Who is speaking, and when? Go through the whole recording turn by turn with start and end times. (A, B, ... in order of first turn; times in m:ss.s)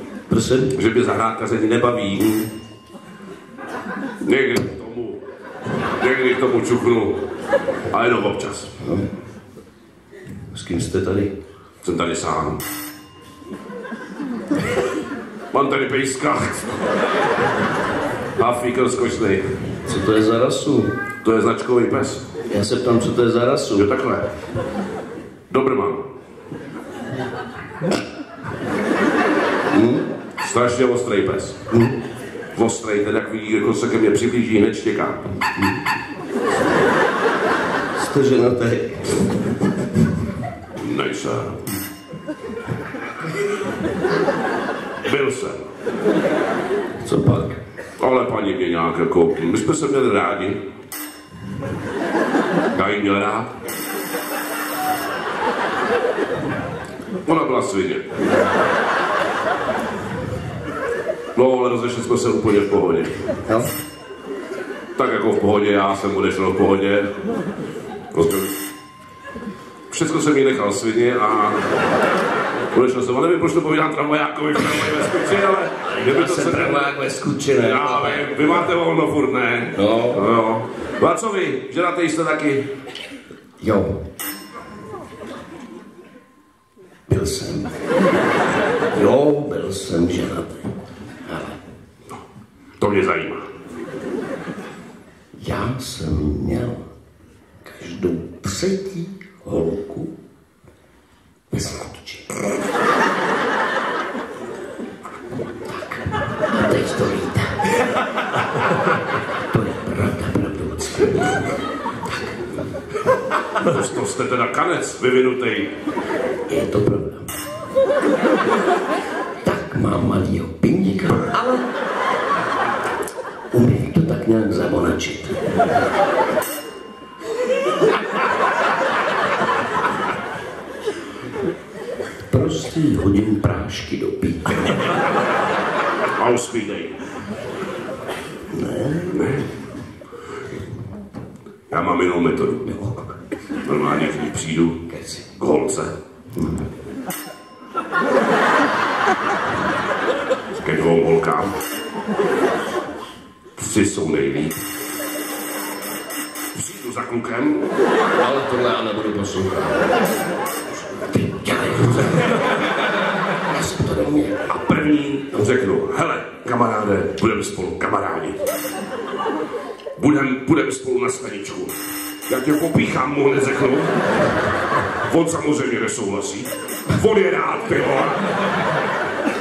0:00.3-0:00.7 A
0:00.7-0:02.5 B
0:04.2-0:05.2 B
0:06.0-0:07.2 B
0:07.9-0:08.7 B
0:08.8-0:09.1 A
0:10.5-0:11.3 A
0:11.8-0:12.6 B
0:15.5-0:16.8 B
0:18.4-0:19.7 B
0:19.8-0:20.9 A
0:21.2-0:22.2 B
0:22.5-0:23.9 A
0:23.7-0:24.3 B
0:25.5-0:26.0 B
0:29.7-0:30.1 A
0:30.4-0:31.6 B
0:31.7-0:32.0 A
0:32.5-0:35.4 B
0:35.5-0:35.8 A
0:37.9-0:39.5 A
0:40.8-0:41.6 B
0:45.0-0:45.7 B
0:47.0-0:47.6 A
0:48.0-0:50.6 B
0:52.7-0:53.5 B
0:57.2-0:58.1 B
1:01.3-1:03.2 B
1:05.0-1:07.1 B
1:08.1-1:08.5 B
1:09.9-1:11.7 B
1:12.7-1:16.9 B
1:15.9-1:18.7 A
1:17.6-1:22.6 B
1:19.8-1:20.2 A
1:23.6-1:24.0 A
1:27.1-1:27.7 A
1:28.9-1:31.6 A
1:32.8-1:33.4 B
1:35.4-1:36.9 A
1:37.6-1:40.1 A
1:41.5-1:42.4 A
1:45.5-1:47.6 A
1:49.1-1:52.7 A
1:53.6-1:55.7 B
1:56.5-1:57.3 A
1:59.4-2:01.6 A
2:03.5-2:05.4 A
2:12.3-2:14.9 A
2:16.2-2:17.0 B
2:18.5-2:19.3 A
2:19.1-2:19.5 B
2:21.7-2:22.8 B
2:22.6-2:23.2 A
2:23.6-2:26.0 B
2:24.9-2:25.3 A
2:26.4-2:26.6 A
2:30.6-2:31.5 B
2:33.6-2:34.6 B
2:36.5-2:37.7 B
2:38.2-2:40.2 A
2:40.7-2:42.3 A
2:43.4-2:44.5 A
2:44.5-2:48.4 B
2:50.0-2:51.7 B
2:52.3-2:54.0 B
2:55.1-2:58.4 B